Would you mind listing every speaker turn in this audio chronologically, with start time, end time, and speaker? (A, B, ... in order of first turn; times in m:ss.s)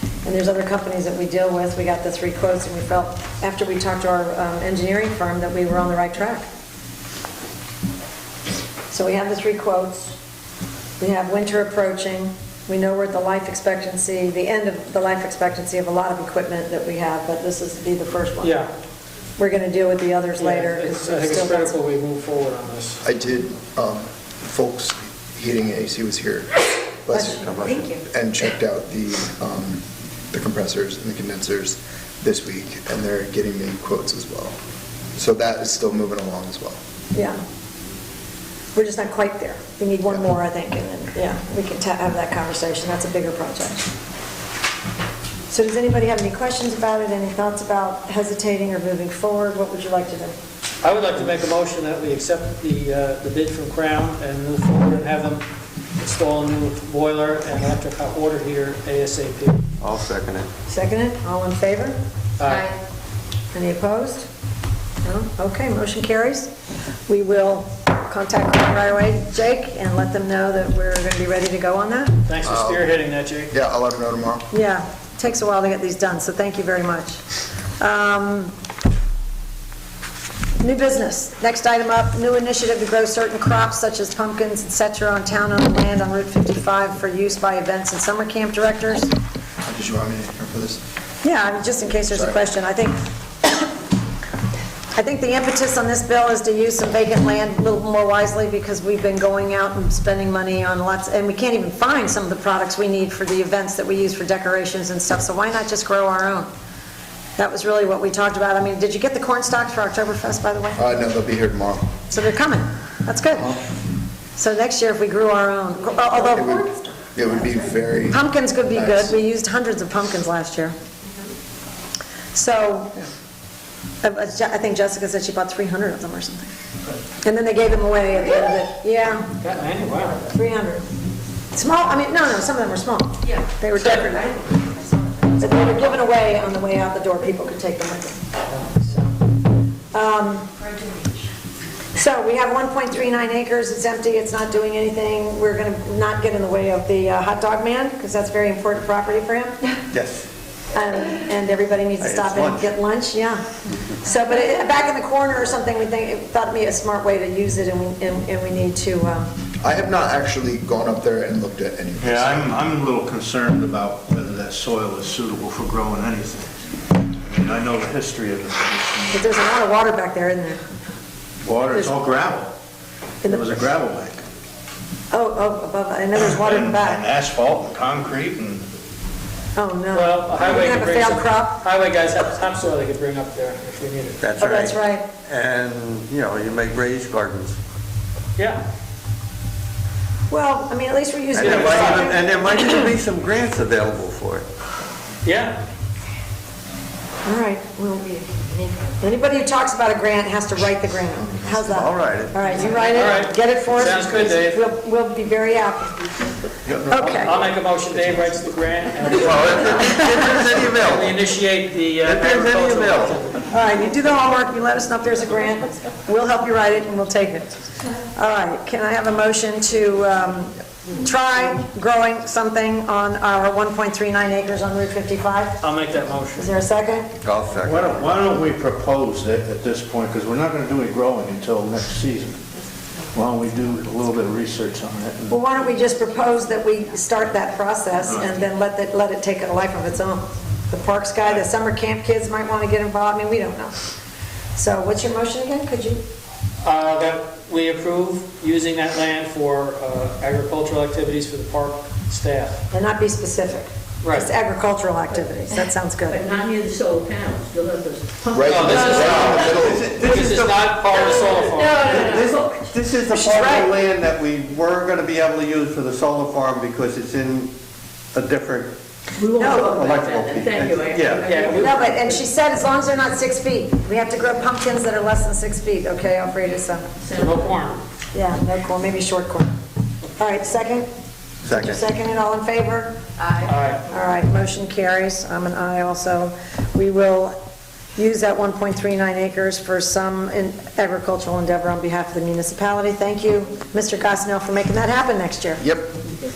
0:00.2-0:06.5 A
0:08.9-0:10.1 A
0:11.0-0:18.6 A
0:18.4-0:18.7 B
0:19.4-0:21.7 A
0:20.4-0:23.0 B
0:23.0-0:34.5 C
0:27.1-0:27.4 A
0:27.4-0:28.0 D
0:35.2-0:36.8 C
0:37.1-0:37.4 A
0:38.7-0:43.9 A
0:45.5-0:50.3 A
0:50.8-0:55.4 B
0:56.0-0:59.6 B
0:59.8-1:00.5 D
1:00.7-1:02.0 A
1:02.4-1:02.7 B
1:03.5-1:04.3 A
1:05.0-1:06.5 A
1:07.1-1:12.2 A
1:12.3-1:13.5 B
1:12.4-1:12.9 C
1:13.5-1:14.5 C
1:14.5-1:17.2 A
1:17.8-1:18.5 A
1:20.6-1:29.1 A
1:29.6-1:30.8 C
1:31.2-1:33.1 A
1:32.1-1:32.4 C
1:35.0-1:46.5 A
1:47.4-1:50.8 A
1:50.8-1:51.9 C
1:52.1-1:53.6 A
1:54.4-1:56.9 A
1:56.2-1:59.1 C
1:58.1-2:00.7 A
2:02.3-2:03.0 A
2:04.0-2:06.5 A
2:07.2-2:09.4 A
2:09.4-2:10.2 B
2:10.2-2:10.8 A
2:11.5-2:14.6 A
2:15.4-2:19.1 A
2:19.9-2:20.5 A
2:21.9-2:29.6 A
2:29.9-2:30.2 E
2:30.7-2:33.4 A
2:32.0-2:32.6 D
2:32.1-2:32.6 E
2:34.0-2:39.3 A
2:39.6-2:42.5 C
2:42.0-2:49.3 F
2:49.1-2:50.6 A
2:51.4-2:52.5 F
2:53.2-2:54.2 F
2:55.1-2:57.0 A
2:56.3-2:58.6 F
2:59.6-3:01.6 A
2:59.9-3:04.2 B
3:04.2-3:07.6 D
3:04.4-3:05.1 A
3:08.4-3:08.6 B
3:10.3-3:12.8 A
3:11.3-3:14.4 D
3:11.4-3:12.1 B
3:15.2-3:15.6 B
3:17.2-3:18.3 A
3:19.0-3:26.0 A
3:21.7-3:22.4 D
3:22.9-3:24.6 B
3:26.8-3:33.4 B
3:26.9-3:27.4 A
3:29.1-3:31.1 D
3:32.0-3:33.2 D
3:33.5-3:45.6 A
3:45.6-3:46.6 B
3:46.4-3:47.1 A
3:47.2-3:48.1 D
3:47.6-3:52.4 F
3:53.1-3:55.4 F
3:55.3-4:03.7 A
4:04.5-4:06.0 A
4:06.6-4:12.6 B
4:12.7-4:16.2 A
4:14.0-4:14.3 B
4:16.1-4:19.7 G
4:18.3-4:19.9 C
4:18.4-4:22.3 B
4:19.4-4:27.5 E
4:22.1-4:22.8 G
4:23.1-4:23.7 A
4:23.3-4:23.6 G
4:23.7-4:24.1 D
4:24.9-4:26.8 D
4:28.2-4:28.7 E
4:29.1-4:32.3 G
4:29.4-4:29.8 A
4:29.4-4:31.3 D
4:29.4-4:30.2 E
4:31.2-4:31.8 B
4:31.5-4:36.9 A
4:37.0-4:37.5 G
4:37.1-4:37.8 B
4:38.1-4:39.5 A
4:40.2-4:40.9 A
4:41.4-4:41.8 D
4:41.5-4:43.0 A
4:43.4-4:43.8 B
4:43.9-4:47.4 A
4:48.0-4:55.7 A
4:55.6-4:55.9 C